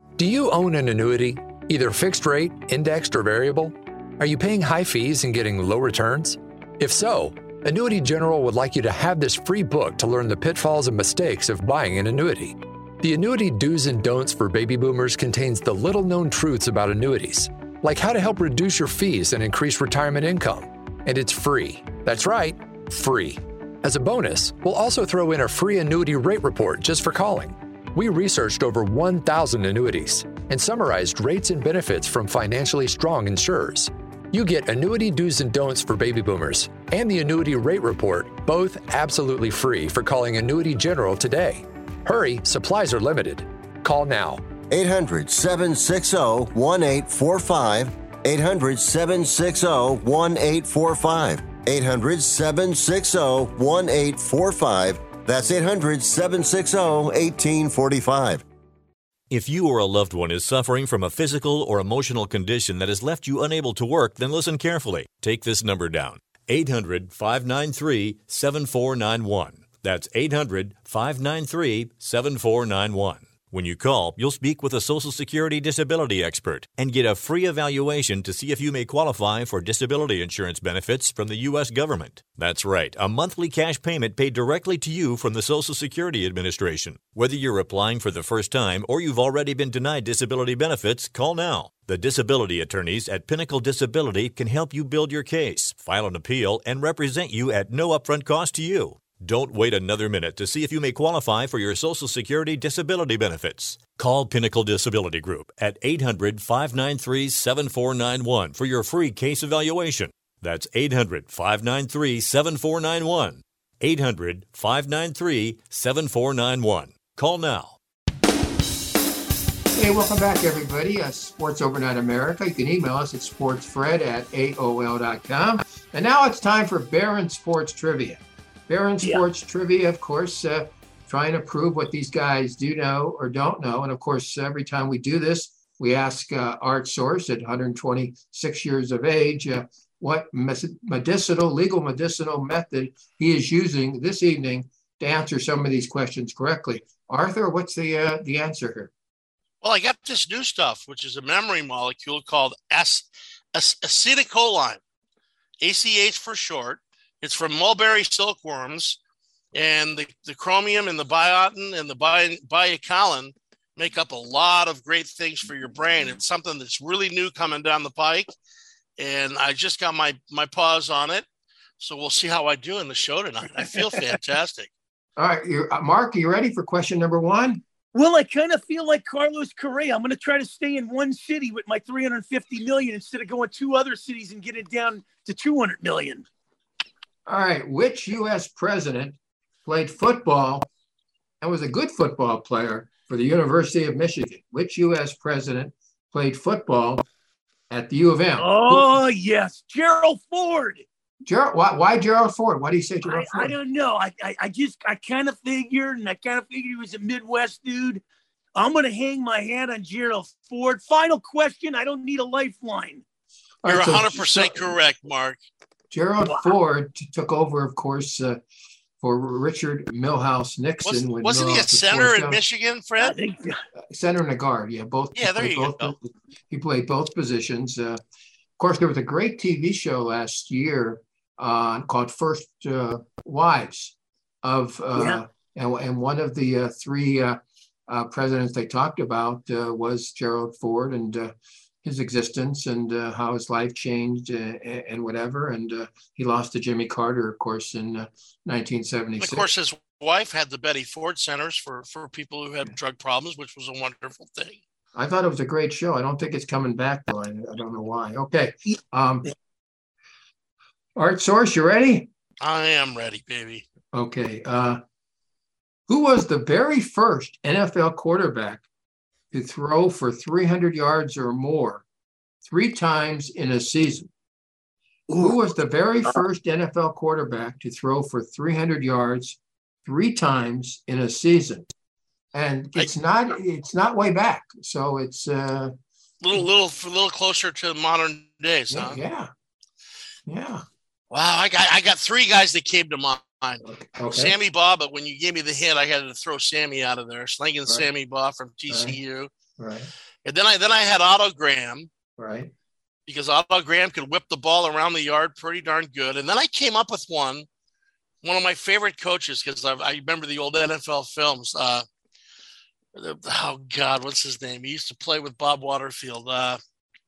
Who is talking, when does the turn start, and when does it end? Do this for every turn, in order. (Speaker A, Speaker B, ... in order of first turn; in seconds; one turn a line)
Speaker A: 0.2-44.4
Speaker B: 44.7-58.4
Speaker C: 59.3-117.8
Speaker D: 119.8-148.9
Speaker E: 149.6-154.8
Speaker E: 155.6-159.0
Speaker E: 159.5-168.3
Speaker E: 169.0-171.2
Speaker E: 171.8-174.7
Speaker F: 173.6-174.2
Speaker D: 175.2-177.6
Speaker F: 177.9-186.3
Speaker D: 187.3-190.7
Speaker D: 191.4-197.0
Speaker D: 197.7-199.0
Speaker F: 198.4-200.8
Speaker D: 201.2-203.5
Speaker F: 203.0-208.0
Speaker F: 208.6-213.0
Speaker D: 213.6-214.7
Speaker E: 213.7-215.4
Speaker D: 215.9-218.4
Speaker F: 216.2-216.5
Speaker D: 219.0-222.4
Speaker E: 220.8-223.2
Speaker F: 223.0-223.6
Speaker D: 223.9-228.0
Speaker E: 225.2-225.9
Speaker D: 228.6-249.5
Speaker E: 249.2-254.6
Speaker D: 254.9-259.3
Speaker D: 261.0-262.1
Speaker E: 262.4-263.6
Speaker D: 263.9-264.8
Speaker D: 265.9-268.6
Speaker D: 269.3-271.8
Speaker D: 272.4-274.1
Speaker F: 275.1-275.4
Speaker D: 275.2-281.7
Speaker D: 282.3-285.7
Speaker E: 286.2-289.0
Speaker D: 288.7-289.3
Speaker D: 290.3-290.6
Speaker E: 291.1-299.3
Speaker D: 293.6-294.4
Speaker D: 298.7-298.9
Speaker D: 299.6-299.9
Speaker E: 300.2-301.9
Speaker D: 302.2-302.5
Speaker E: 303.1-307.5
Speaker E: 308.2-311.9
Speaker E: 312.9-316.6